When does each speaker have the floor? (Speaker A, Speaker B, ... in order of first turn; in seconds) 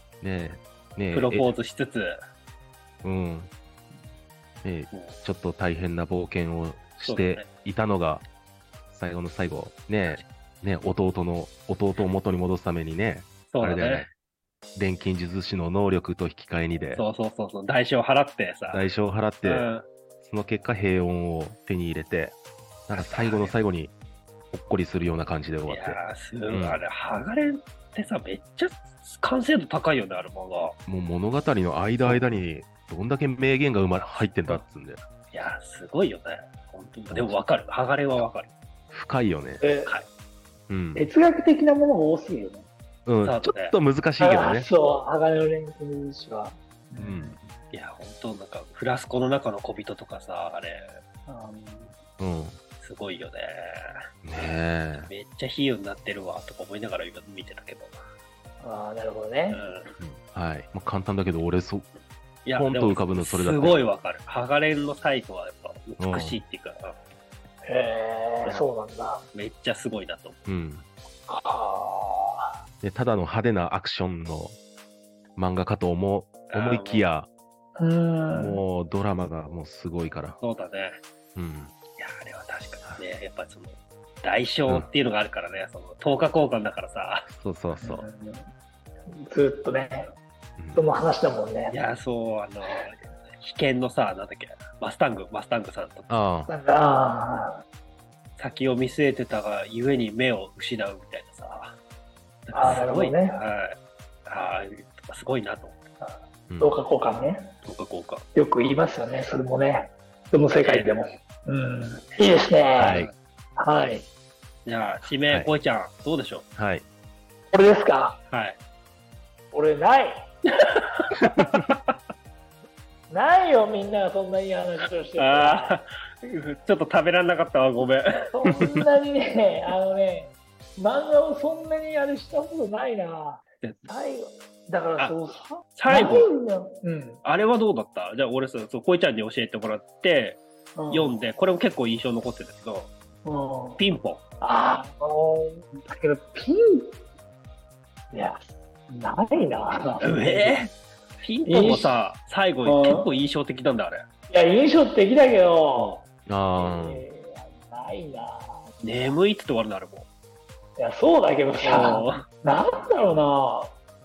Speaker A: 0.2-1.5, 3.0-3.5, 4.6-8.2, 8.9-14.1, 14.8-17.0, 18.7-19.7, 20.2-22.4, 22.9-23.9, 24.5-26.8, 30.9-35.0, 37.1-37.4, 38.9-39.6, 40.7-41.1, 43.1-44.7, 47.0-47.5, 52.2-52.6, 54.2-55.1, 60.0-61.9, 62.5-63.8, 66.0-66.4, 70.5-70.9, 72.8-74.5, 75.4-77.3, 78.3-80.4, 81.3-81.8, 87.3-88.0, 90.6-90.8, 96.1-96.5, 102.6-102.9, 106.5-106.7, 112.8-113.1, 116.6-116.8, 156.3-157.0
Speaker B: 1.1-2.1, 4.9-5.2, 7.1-7.5, 13.5-14.1, 16.9-18.9, 19.4-19.9, 22.9-23.6, 25.7-30.8, 32.0-32.3, 34.0-34.6, 35.3-38.5, 43.2-43.7, 47.7-50.9, 52.8-53.9, 55.0-58.0, 59.5-59.9, 62.5-67.0, 69.3-70.5, 76.5-77.1, 80.4-81.0, 82.0-87.3, 91.7-96.1, 98.4-101.8, 102.5-105.8, 107.6-108.3, 110.6-111.0, 112.8-113.2, 114.7-116.5, 118.3-118.6, 120.5-121.8, 125.2-128.7, 133.6-133.9, 135.8-136.3, 137.2-142.9, 143.8-144.2, 150.0-154.1, 155.7-156.0, 158.8-160.1, 161.6-162.2
Speaker C: 39.6-39.9, 41.0-42.7, 44.2-47.4, 51.3-52.0, 58.6-59.6, 67.7-69.2, 71.3-72.6, 77.8-78.6, 87.8-88.5, 89.1-90.1, 90.7-91.8, 96.5-97.6, 102.5-103.3, 106.0-107.5, 108.3-113.1, 113.6-114.1, 117.5-118.2, 119.5-120.2, 123.1-125.8, 128.3-137.2, 140.8-141.2, 143.2-143.8, 144.4-146.9, 148.1-150.6, 151.5-152.0, 152.7-153.1, 154.3-156.0, 156.6-158.6, 160.8-163.8